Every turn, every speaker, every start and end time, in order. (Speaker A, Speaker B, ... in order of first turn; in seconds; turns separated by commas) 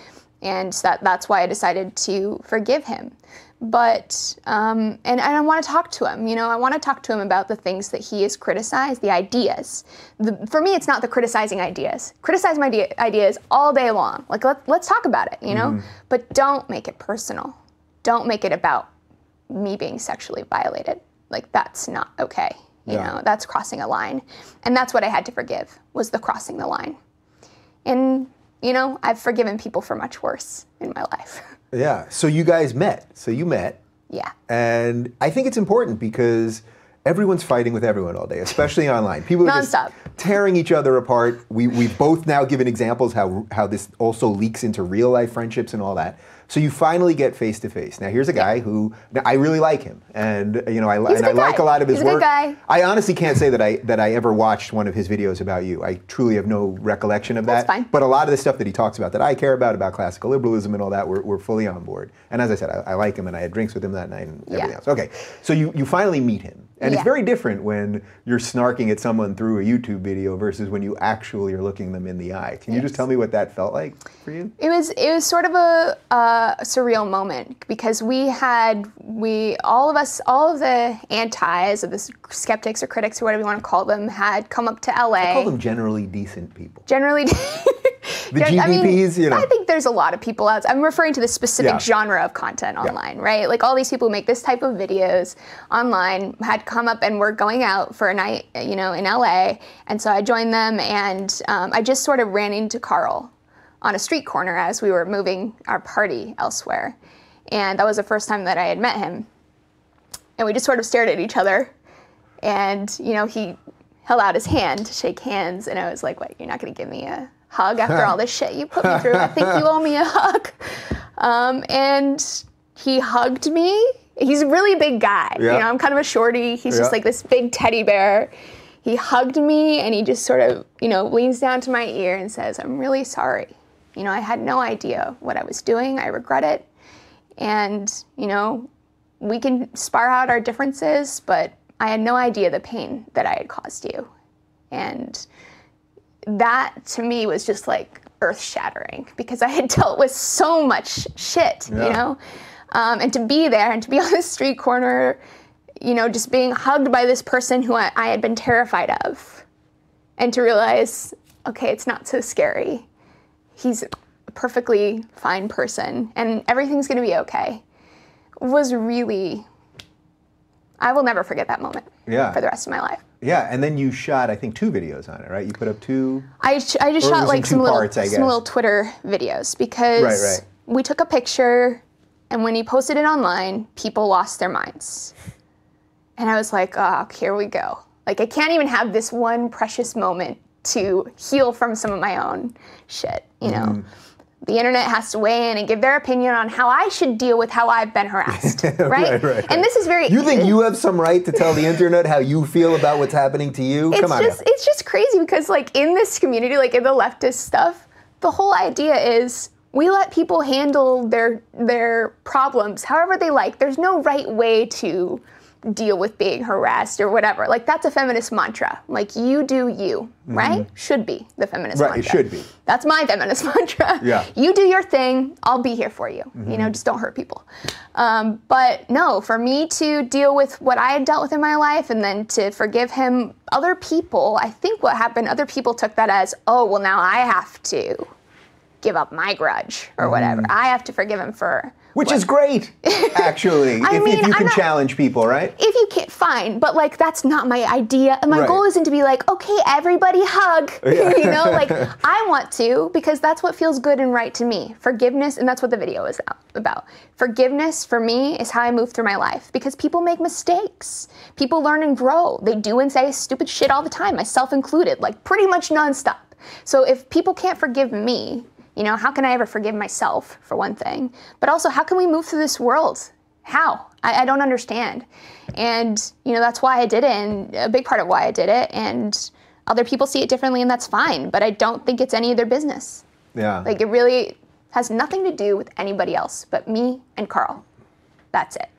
Speaker A: 0.4-18.9, Speaker B: 15.5-15.8, Speaker A: 19.5-27.0, Speaker B: 22.9-23.1, Speaker A: 27.9-31.5, Speaker B: 31.7-33.8, Speaker A: 34.1-34.3, Speaker B: 34.5-74.5, Speaker A: 39.4-40.0, Speaker A: 51.0-52.6, Speaker A: 57.5-57.9, Speaker A: 74.6-85.5, Speaker B: 85.2-86.8, Speaker A: 86.9-103.3, Speaker B: 88.3-89.5, Speaker B: 91.6-91.8, Speaker A: 103.8-106.9, Speaker A: 107.5-109.2, Speaker A: 110.4-111.7, Speaker A: 112.4-128.3, Speaker B: 118.8-119.6, Speaker B: 125.4-125.7, Speaker B: 126.7-126.9, Speaker A: 128.8-136.7, Speaker A: 137.4-138.7, Speaker A: 139.2-144.1, Speaker A: 144.7-145.2, Speaker A: 146.3-152.2, Speaker B: 151.7-152.0, Speaker A: 152.7-155.2, Speaker A: 155.8-159.4, Speaker A: 160.2-162.8, Speaker A: 163.6-167.6, Speaker A: 168.4-169.4, Speaker A: 170.8-173.0, Speaker B: 172.1-172.4, Speaker B: 173.2-176.3, Speaker A: 176.4-185.1, Speaker B: 177.0-178.4, Speaker B: 179.9-180.4, Speaker A: 186.2-193.8, Speaker B: 193.4-193.8, Speaker A: 194.4-200.6, Speaker B: 198.3-204.4, Speaker A: 203.9-238.1, Speaker B: 220.3-220.7, Speaker B: 221.7-222.5, Speaker B: 224.0-224.3, Speaker B: 226.4-226.7, Speaker A: 238.8-242.2, Speaker B: 240.0-240.5, Speaker B: 241.9-245.6, Speaker A: 242.8-244.7, Speaker A: 245.6-283.0, Speaker B: 248.3-248.6, Speaker B: 250.8-251.9, Speaker B: 283.3-283.7, Speaker A: 283.6-287.6, Speaker A: 288.3-288.7